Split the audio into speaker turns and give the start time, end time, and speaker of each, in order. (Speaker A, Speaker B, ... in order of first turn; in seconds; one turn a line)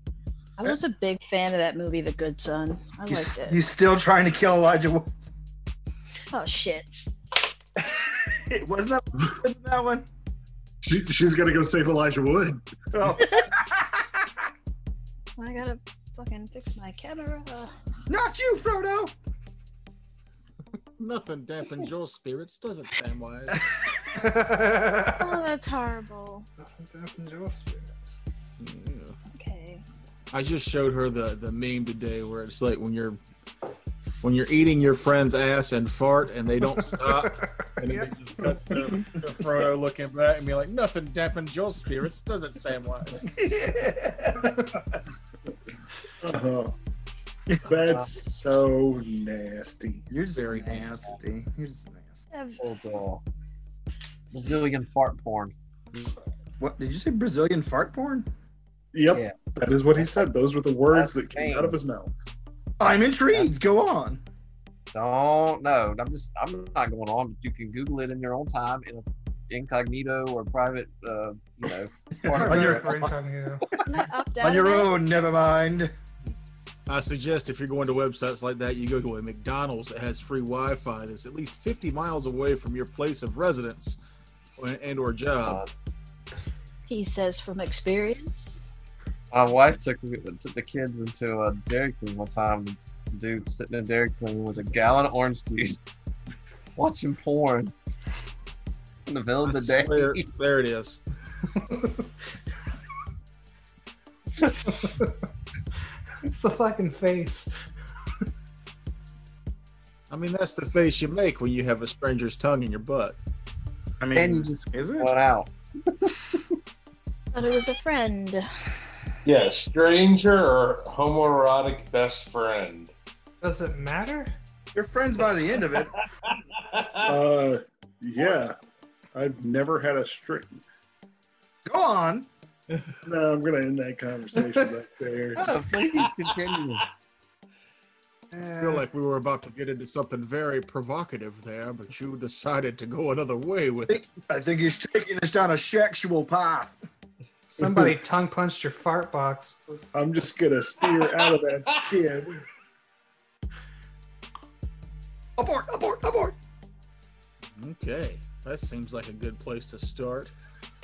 Speaker A: 0.6-3.6
Speaker B: 3.1-5.2
Speaker A: 6.3-6.9
Speaker B: 7.9-10.1
Speaker C: 10.8-12.7
Speaker B: 12.9-14.2
Speaker A: 15.4-17.7
Speaker B: 18.1-19.1
Speaker D: 21.0-23.6
Speaker E: 24.1-25.4
Speaker A: 25.2-26.5
Speaker E: 26.6-28.0
Speaker D: 28.6-29.2
Speaker A: 29.3-29.8
Speaker D: 30.3-33.2
Speaker D: 34.2-43.3
Speaker E: 36.8-38.1
Speaker C: 38.4-39.3
Speaker B: 43.3-44.8
Speaker C: 46.2-46.7
Speaker C: 47.6-50.1
Speaker F: 47.8-48.1
Speaker B: 50.1-52.2
Speaker D: 50.3-51.1
Speaker A: 52.3-52.6
Speaker F: 52.6-53.2
Speaker F: 54.3-55.5
Speaker B: 56.0-58.3
Speaker C: 58.9-62.1
Speaker F: 59.1-59.4
Speaker F: 60.9-61.8
Speaker B: 62.8-64.2
Speaker F: 64.9-73.0
Speaker B: 72.2-73.2
Speaker E: 72.3-73.7
Speaker A: 73.8-75.0
Speaker B: 74.4-75.9
Speaker D: 76.9-84.0
Speaker D: 84.6-85.6
Speaker F: 85.4-85.7
Speaker A: 86.9-88.7
Speaker F: 89.3-95.8
Speaker F: 96.8-97.7
Speaker F: 99.1-100.3
Speaker D: 99.4-101.0
Speaker E: 101.6-102.0
Speaker E: 104.8-105.1
Speaker E: 106.2-107.5
Speaker D: 110.1-113.2
Speaker B: 114.0-115.1
Speaker F: 114.2-116.4
Speaker A: 117.3-118.5
Speaker G: 119.2-122.9
Speaker E: 123.4-124.3
Speaker B: 124.8-126.0
Speaker G: 125.7-127.2
Speaker C: 127.0-128.6
Speaker C: 129.1-130.6
Speaker B: 131.7-132.3
Speaker C: 133.0-135.6
Speaker F: 135.3-136.8
Speaker G: 135.8-136.7
Speaker E: 138.3-138.9
Speaker D: 138.6-144.1
Speaker B: 143.9-146.8
Speaker E: 147.5-149.8
Speaker C: 149.9-152.4
Speaker B: 155.4-156.4
Speaker D: 157.5-160.3